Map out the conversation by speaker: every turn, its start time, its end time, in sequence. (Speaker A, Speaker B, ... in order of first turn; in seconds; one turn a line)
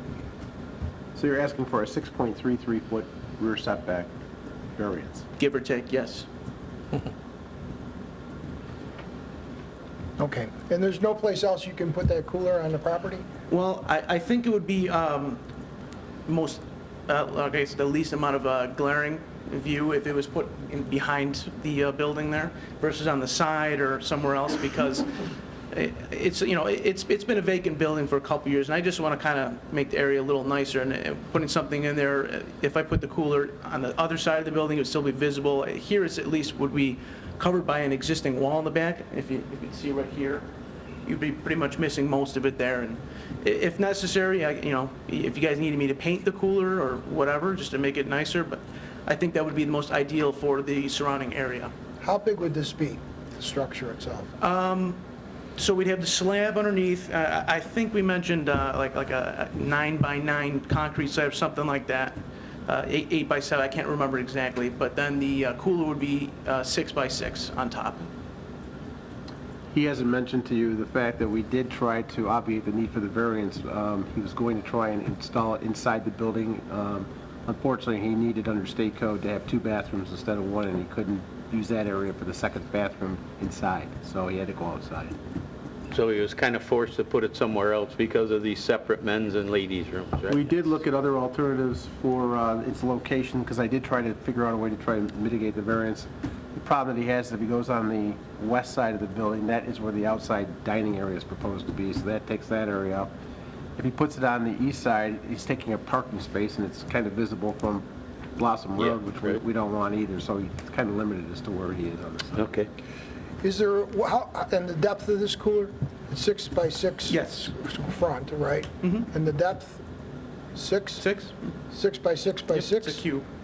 Speaker A: 1.1-4.1
Speaker A: 4.8-5.2
Speaker B: 5.4-6.3
Speaker C: 10.2-13.2
Speaker B: 13.5-15.4
Speaker B: 16.3-25.1
Speaker B: 25.7-40.5
Speaker B: 41.0-51.7
Speaker C: 52.0-54.3
Speaker B: 54.4-55.0
Speaker B: 55.6-68.1
Speaker A: 69.7-85.2
Speaker D: 85.9-90.7
Speaker A: 90.3-103.1
Speaker A: 103.8-107.8
Speaker A: 108.4-112.4
Speaker D: 112.3-112.7
Speaker C: 113.4-119.8
Speaker B: 117.1-117.5
Speaker B: 118.8-119.1
Speaker C: 120.5-121.0
Speaker B: 121.0-121.4
Speaker C: 121.7-123.0
Speaker B: 122.5-123.2